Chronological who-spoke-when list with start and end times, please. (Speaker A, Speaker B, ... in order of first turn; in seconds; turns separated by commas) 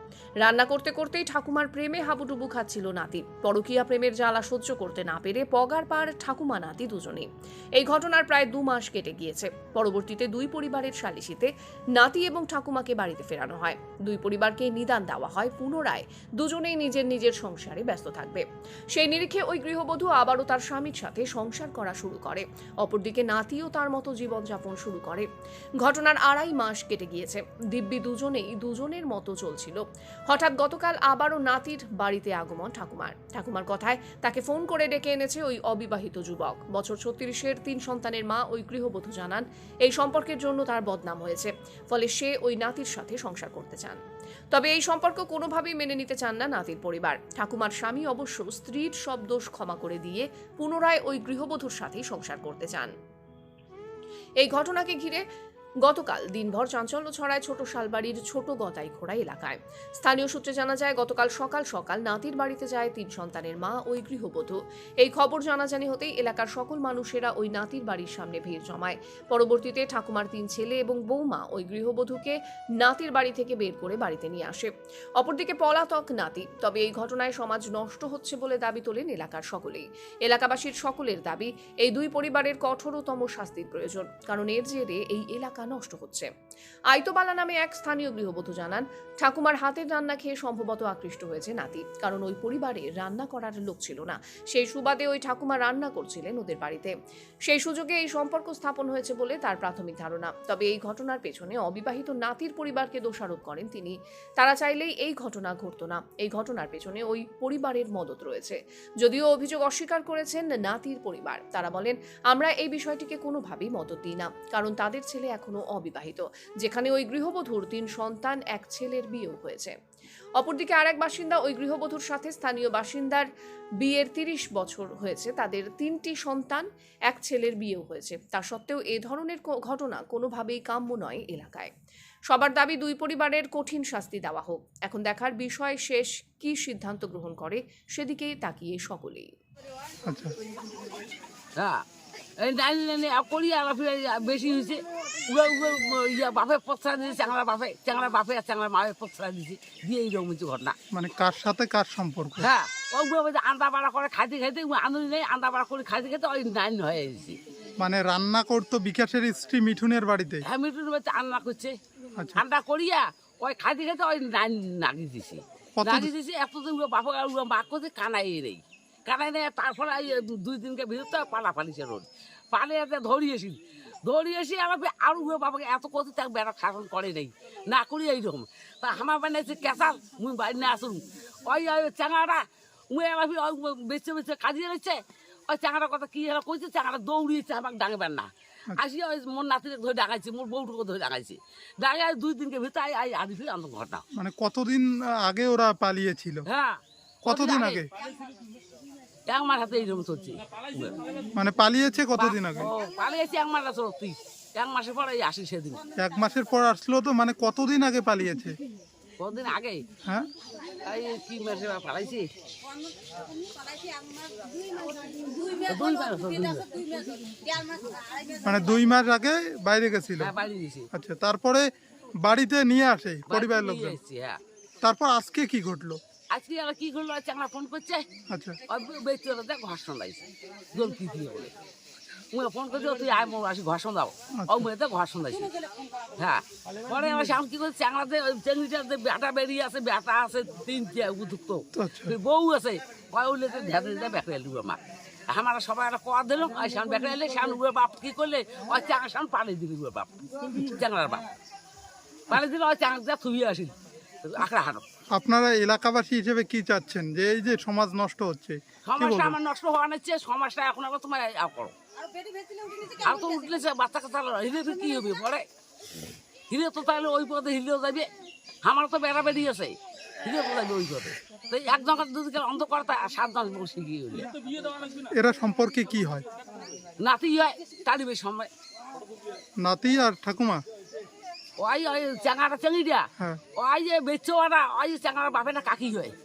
Speaker A: 0.4-25.3, Speaker A: 25.8-44.0, Speaker A: 44.5-52.9, Speaker A: 54.4-55.2, Speaker A: 55.8-86.3, Speaker A: 86.9-96.9, Speaker A: 97.5-119.7, Speaker A: 120.4-123.3, Speaker A: 123.8-131.7, Speaker A: 132.3-139.3, Speaker B: 140.1-140.3, Speaker C: 141.6-141.8, Speaker C: 142.4-150.7, Speaker B: 150.9-152.5, Speaker C: 152.4-157.4, Speaker B: 157.8-160.4, Speaker C: 160.4-161.7, Speaker B: 162.2-162.4, Speaker C: 162.3-194.0, Speaker B: 165.8-166.1, Speaker B: 194.2-196.4, Speaker C: 196.5-197.8, Speaker B: 197.2-197.9, Speaker C: 199.3-201.0, Speaker B: 201.4-202.7, Speaker C: 202.1-205.8, Speaker B: 206.0-208.5, Speaker C: 209.2-209.8, Speaker C: 210.8-212.3, Speaker C: 215.4-217.0, Speaker B: 218.4-220.3, Speaker C: 220.2-220.9, Speaker B: 220.9-221.7, Speaker B: 222.2-224.0, Speaker C: 223.3-224.4, Speaker B: 224.8-226.0, Speaker C: 226.3-228.0, Speaker B: 228.3-228.6, Speaker C: 228.7-231.5, Speaker C: 232.3-235.5, Speaker B: 234.4-234.7, Speaker C: 236.2-251.3, Speaker B: 241.7-242.1, Speaker C: 252.3-254.8, Speaker B: 255.1-259.4, Speaker C: 258.9-261.7, Speaker C: 262.9-265.4, Speaker C: 266.5-268.1, Speaker C: 268.6-274.3, Speaker B: 275.1-276.2, Speaker C: 277.0-278.5, Speaker B: 279.6-280.6, Speaker C: 281.6-283.0, Speaker C: 283.6-286.1